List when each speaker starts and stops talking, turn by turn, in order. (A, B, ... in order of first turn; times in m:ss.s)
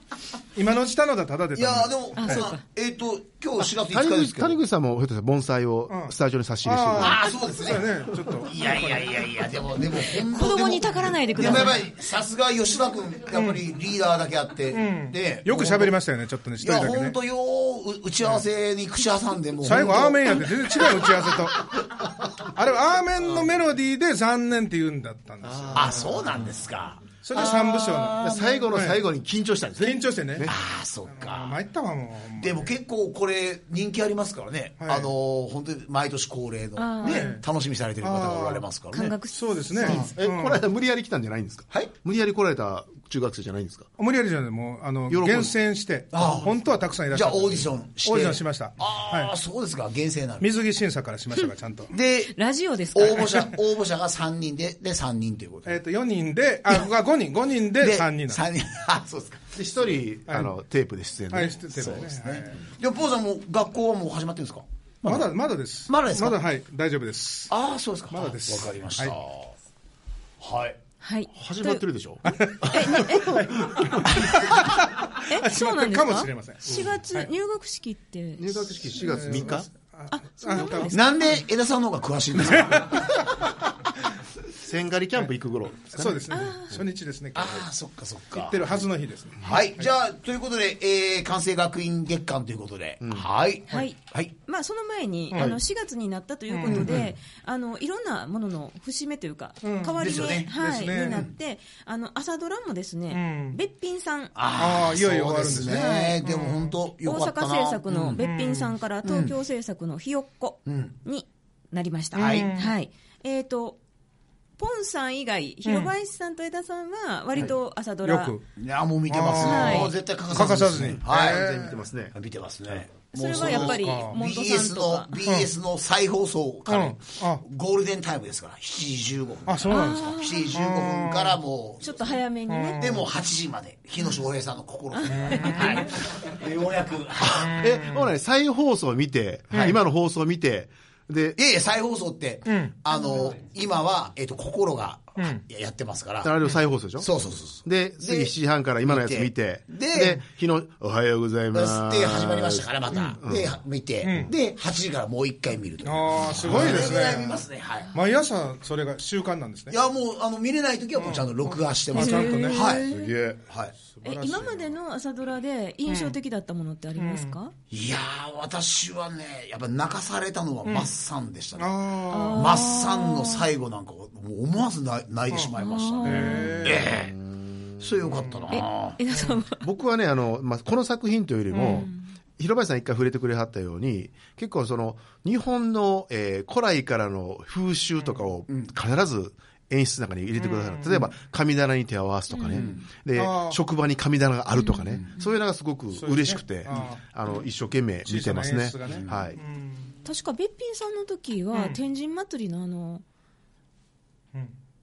0:00.5-0:02.5 A
0:01.6-0:04.6 B
0:02.2-0:02.6 C
0:03.8-0:07.2 D
0:05.9-0:09.1 A
0:06.9-0:16.0 B
0:10.1-0:11.8 C
0:14.7-0:17.2 A
0:16.6-0:20.9 B
0:19.6-0:26.2 A
0:25.4-0:26.2 D
0:25.7-0:28.6 B
0:27.2-0:29.0 A
0:28.2-0:30.6 D
0:29.8-0:30.5 A
0:30.4-0:31.6 B
0:31.1-0:32.7 A
0:32.4-0:39.2 B
0:34.8-0:35.1 A
0:36.8-0:37.4 C
0:37.0-0:37.4 A
0:38.0-0:38.6 A
0:38.9-0:39.9 C
0:39.2-0:40.6 A
0:39.7-0:40.1 B
0:39.8-0:43.9 D
0:44.0-0:49.3 A
0:45.1-0:45.5 D
0:46.1-0:46.5 B
0:46.2-0:46.7 D
0:47.1-0:50.5 B
0:50.4-0:51.9 A
0:51.9-0:52.3 B
0:52.3-0:53.5 C
0:52.9-0:55.8 B
0:55.7-0:58.4 A
0:57.8-0:59.5 B
0:59.5-1:01.6 D
1:01.3-1:02.6 A
1:01.7-1:05.2 B
1:05.0-1:07.5 A
1:05.9-1:06.4 B
1:07.5-1:09.5 B
1:08.1-1:09.2 A
1:10.4-1:10.8 B
1:11.0-1:11.8 C
1:11.3-1:14.2 D
1:12.3-1:17.3 A
1:12.6-1:13.4 C
1:15.3-1:18.7 C
1:18.4-1:19.7 D
1:19.0-1:20.9 A
1:20.1-1:21.4 C
1:20.9-1:23.5 B
1:22.5-1:23.3 A
1:24.6-1:26.8 D
1:25.9-1:27.7 A
1:26.3-1:26.7 C
1:27.3-1:28.8 B
1:28.3-1:29.9 A
1:29.4-1:34.3 B
1:33.0-1:33.3 D
1:33.7-1:44.3 C
1:36.5-1:37.0 A
1:36.7-1:37.1 B
1:39.6-1:41.2 A
1:40.0-1:41.3 B
1:43.1-1:43.6 A
1:44.3-1:48.2 B
1:44.6-1:46.8 A
1:45.7-1:46.2 C
1:47.0-1:53.8 C
1:48.2-1:48.7 A
1:49.0-1:49.3 B
1:50.7-1:50.9 B
1:52.1-1:52.7 A
1:52.2-1:52.5 B
1:54.6-1:58.4 C
1:55.7-1:55.9 A
1:58.0-1:58.4 A
1:58.6-2:01.5 B
1:59.1-2:01.8 A
1:59.4-1:59.9 C
2:01.0-2:02.2 D
2:02.1-2:12.2 B
2:03.1-2:05.1 C
2:03.7-2:04.2 A
2:05.2-2:05.5 A
2:06.7-2:07.4 A
2:09.5-2:11.4 A
2:09.7-2:10.5 C
2:11.8-2:12.8 C
2:12.5-2:13.1 A
2:12.8-2:17.6 B
2:14.9-2:15.9 C
2:15.1-2:15.9 A
2:17.2-2:21.4 D
2:17.5-2:18.1 A
2:19.5-2:19.8 A
2:21.4-2:26.3 B
2:22.5-2:22.7 A
2:25.2-2:25.4 A
2:26.2-2:27.1 D
2:27.0-2:30.2 B
2:27.6-2:33.6 D
2:31.5-2:37.9 B
2:34.0-2:34.3 A
2:35.8-2:37.4 A
2:36.4-2:36.8 D
2:37.9-2:39.8 A
2:39.7-2:43.7 B
2:41.0-2:42.7 A
2:41.9-2:42.9 C
2:42.8-2:43.4 D
2:43.8-2:44.7 A
2:44.0-2:47.5 C
2:45.9-2:46.2 A
2:47.0-2:47.3 A
2:47.7-2:57.1 B
2:50.6-2:50.9 A
2:51.6-2:52.5 A
2:52.1-2:53.5 C
2:55.3-2:56.9 A
2:55.6-2:56.7 C
2:56.9-2:57.6 D
2:57.8-2:59.0 B
2:58.2-2:58.5 A
2:58.5-2:59.6 C
2:59.1-2:59.4 A
2:59.6-3:19.4 D
3:01.5-3:01.9 A
3:01.6-3:02.1 C
3:10.4-3:11.1 A
3:12.3-3:12.7 C
3:12.5-3:12.8 B
3:13.2-3:13.6 A
3:14.5-3:15.0 C
3:15.9-3:17.0 A
3:18.0-3:19.9 A
3:18.9-3:19.1 B
3:20.0-3:23.0 C